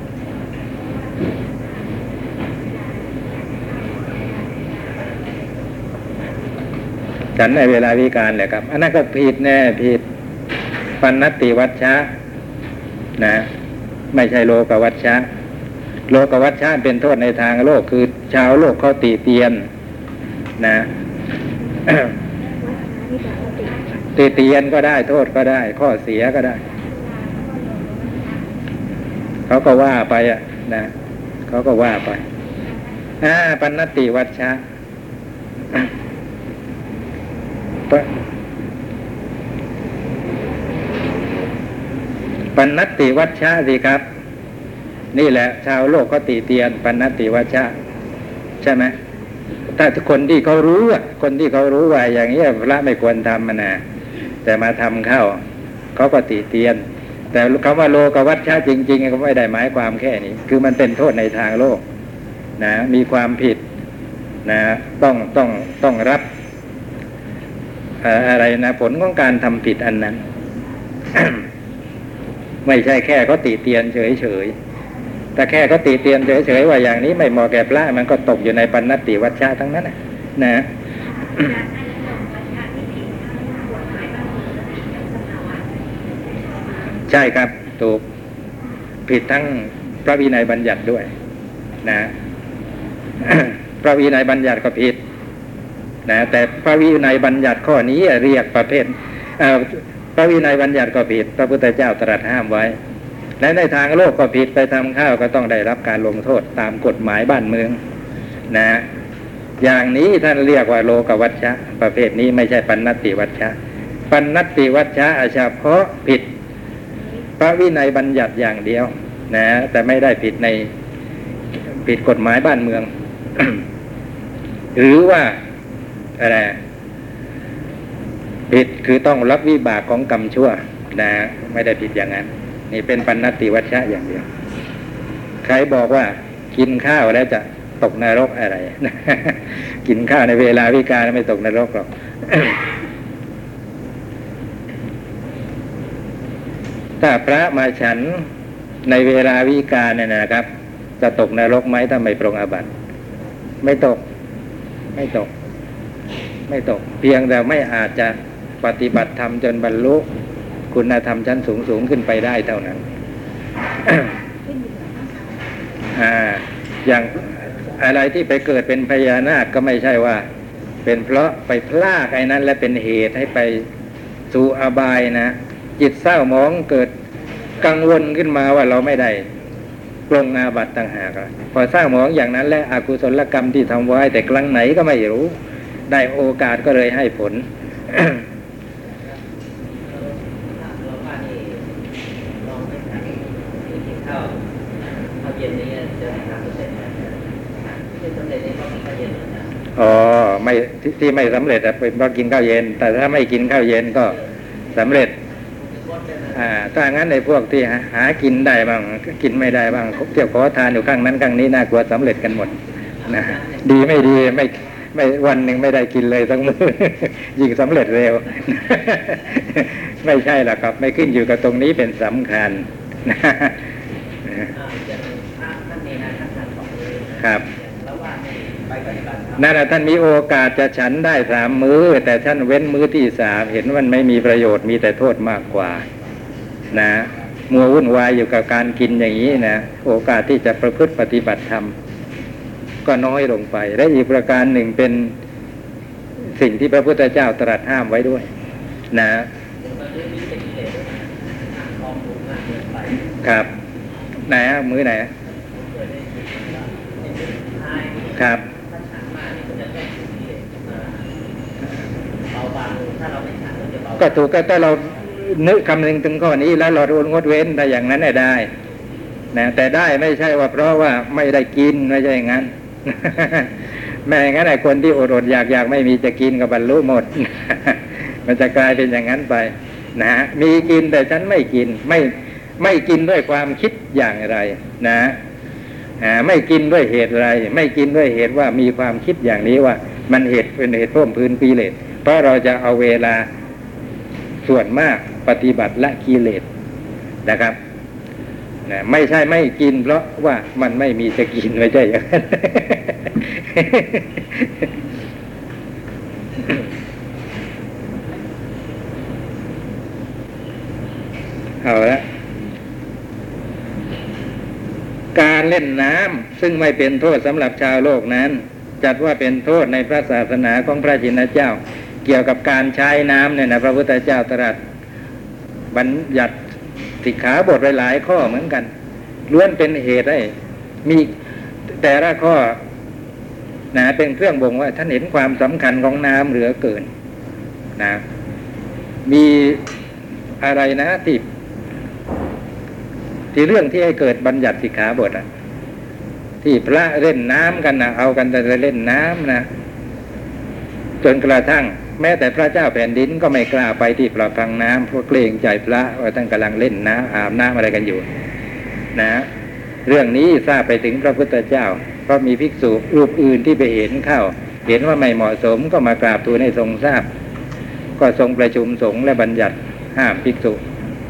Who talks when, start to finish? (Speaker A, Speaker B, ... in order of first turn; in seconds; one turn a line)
Speaker A: 0.6-5.7
Speaker B: 7.4-10.0
Speaker B: 11.0-12.1
Speaker B: 13.2-13.5
Speaker B: 14.1-15.2
Speaker B: 16.1-19.6
Speaker B: 20.6-20.9
Speaker B: 21.9-22.1
Speaker A: 22.4-24.2
Speaker B: 24.2-26.6
Speaker A: 26.7-28.7
Speaker B: 29.5-30.9
Speaker B: 31.5-32.2
Speaker B: 33.2-34.6
Speaker B: 42.5-44.0
Speaker B: 45.1-47.7
Speaker B: 48.6-49.0
Speaker B: 49.8-53.8
Speaker B: 54.5-55.4
Speaker B: 56.0-56.8
Speaker B: 57.3-61.8
Speaker B: 62.6-63.6
Speaker B: 64.5-66.2
Speaker B: 68.0-70.2
Speaker B: 71.1-71.4
Speaker B: 72.7-74.5
Speaker B: 75.4-80.7
Speaker A: 81.3-85.7
Speaker B: 87.1-88.0
Speaker B: 89.1-91.1
Speaker B: 91.8-92.1
Speaker B: 93.2-95.0
Speaker B: 96.1-102.8
Speaker B: 103.4-107.8
Speaker B: 108.5-108.8
Speaker B: 109.6-113.5
Speaker B: 114.1-116.3
Speaker B: 117.4-120.7
Speaker B: 121.8-123.6
Speaker B: 124.8-125.4
Speaker B: 126.2-126.6
Speaker B: 128.5-134.2
Speaker B: 135.4-142.6
Speaker B: 147.0-148.3
Speaker B: 148.9-150.5
Speaker B: 151.0-152.7
Speaker B: 153.6-154.0
Speaker B: 154.9-155.3
Speaker B: 156.5-160.1
Speaker B: 160.7-162.8
Speaker A: 164.4-165.8
Speaker B: 165.9-170.2
Speaker B: 170.8-173.7
Speaker B: 174.3-176.9
Speaker B: 177.6-179.2
Speaker B: 180.1-185.3
Speaker B: 185.9-188.2
Speaker C: 189.7-194.4
Speaker C: 195.2-199.6
Speaker B: 199.8-204.2
Speaker B: 204.8-205.1
Speaker C: 205.7-206.4
Speaker B: 206.3-223.6
Speaker C: 213.1-214.1
Speaker C: 224.5-229.5
Speaker B: 227.2-227.5
Speaker B: 229.4-235.8
Speaker B: 236.7-241.7
Speaker B: 242.8-245.1
Speaker B: 246.4-248.3
Speaker B: 248.9-249.3
Speaker C: 249.6-253.1
Speaker B: 253.2-253.5
Speaker B: 254.3-255.1
Speaker C: 255.3-261.1
Speaker B: 258.2-258.4
Speaker C: 262.3-264.2
Speaker B: 264.0-268.5
Speaker B: 269.3-273.5
Speaker B: 274.1-285.2
Speaker B: 286.0-293.3
Speaker B: 294.4-296.4
Speaker B: 297.2-297.6
Speaker B: 298.7-304.7
Speaker B: 311.6-312.0
Speaker B: 315.1-324.6
Speaker B: 325.7-326.4
Speaker B: 327.0-328.7
Speaker B: 329.3-330.3
Speaker B: 330.9-331.1
Speaker B: 331.7-332.6
Speaker B: 333.7-336.9
Speaker B: 337.8-338.0
Speaker B: 339.1-339.6
Speaker B: 340.4-341.2
Speaker B: 343.3-345.2
Speaker B: 346.4-349.5
Speaker B: 351.0-358.1
Speaker B: 358.9-359.3
Speaker B: 359.9-367.1
Speaker B: 368.0-370.6